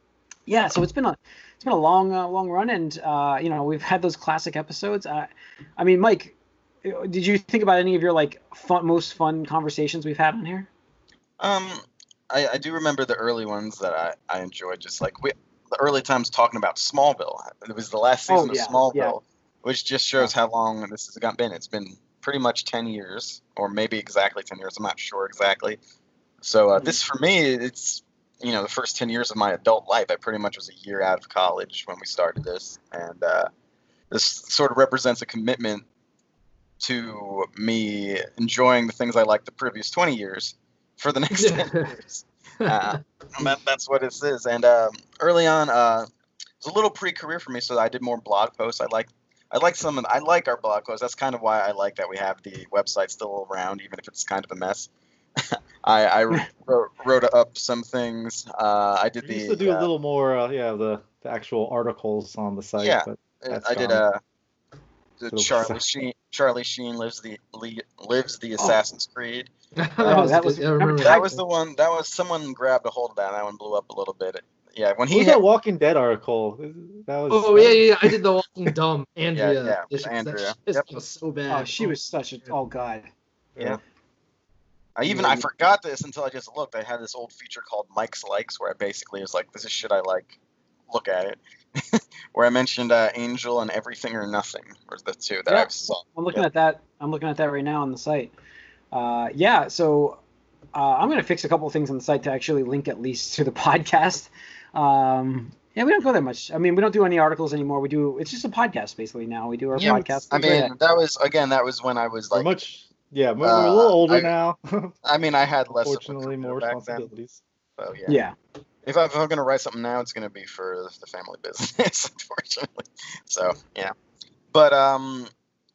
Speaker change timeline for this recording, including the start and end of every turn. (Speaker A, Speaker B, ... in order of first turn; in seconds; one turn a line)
Speaker A: 0.5-10.7
Speaker B: 11.4-25.8
Speaker A: 18.3-19.2
Speaker B: 26.4-33.5
Speaker B: 34.1-35.9
Speaker B: 36.8-46.1
Speaker C: 41.3-41.9
Speaker C: 42.6-43.5
Speaker B: 46.6-54.9
Speaker B: 55.4-59.9
Speaker D: 59.2-64.0
Speaker B: 62.8-64.2
Speaker B: 65.2-69.5
Speaker D: 65.3-65.9
Speaker C: 69.8-71.4
Speaker A: 70.0-71.3
Speaker B: 70.0-70.3
Speaker B: 71.0-75.4
Speaker D: 75.1-78.2
Speaker C: 77.3-82.0
Speaker B: 79.3-80.9
Speaker A: 81.5-83.1
Speaker B: 85.0-90.4
Speaker A: 85.1-85.4
Speaker B: 90.9-96.5
Speaker A: 95.5-98.3
Speaker A: 98.9-100.2
Speaker A: 100.7-110.7
Speaker C: 109.7-110.7
Speaker B: 110.3-112.6
Speaker D: 112.3-115.0
Speaker B: 113.4-114.3
Speaker B: 115.0-117.1
Speaker D: 115.7-117.4
Speaker B: 117.8-118.2
Speaker A: 118.1-118.3
Speaker B: 118.8-123.9
Speaker B: 124.5-125.3